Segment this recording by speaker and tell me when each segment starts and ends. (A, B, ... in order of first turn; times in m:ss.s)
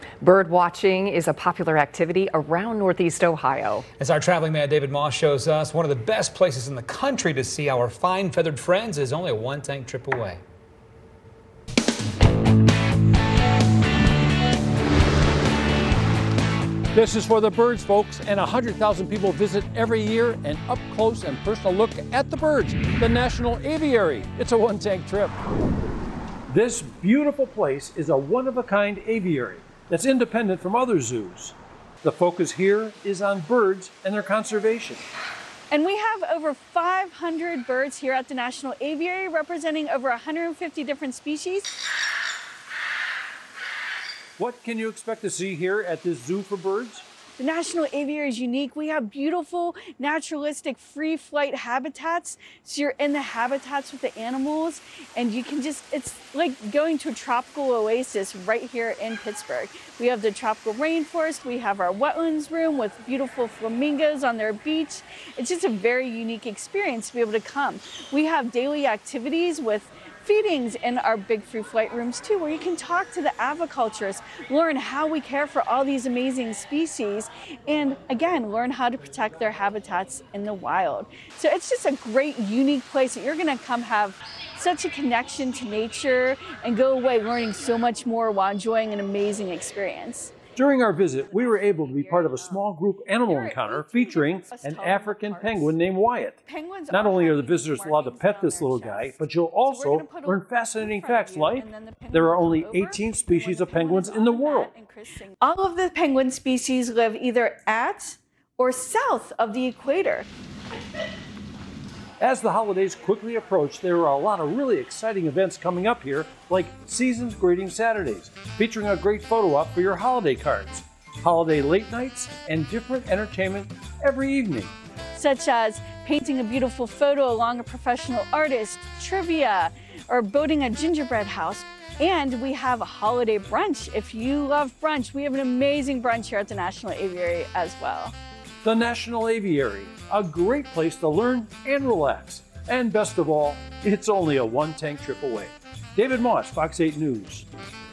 0:00.2-0:03.8 A
0:04.0-0:10.4 B
0:16.9-0:25.4 C
0:26.5-0:35.0 C
0:35.7-0:41.7 D
0:44.4-0:47.0 C
0:47.4-1:30.4 D
1:30.5-1:36.4 C
1:31.0-1:32.6 D
1:33.2-1:35.8 D
1:36.4-1:50.3 D
1:36.9-1:44.7 C
1:52.2-2:04.7 C
2:05.1-2:18.1 D
2:18.6-2:27.5 C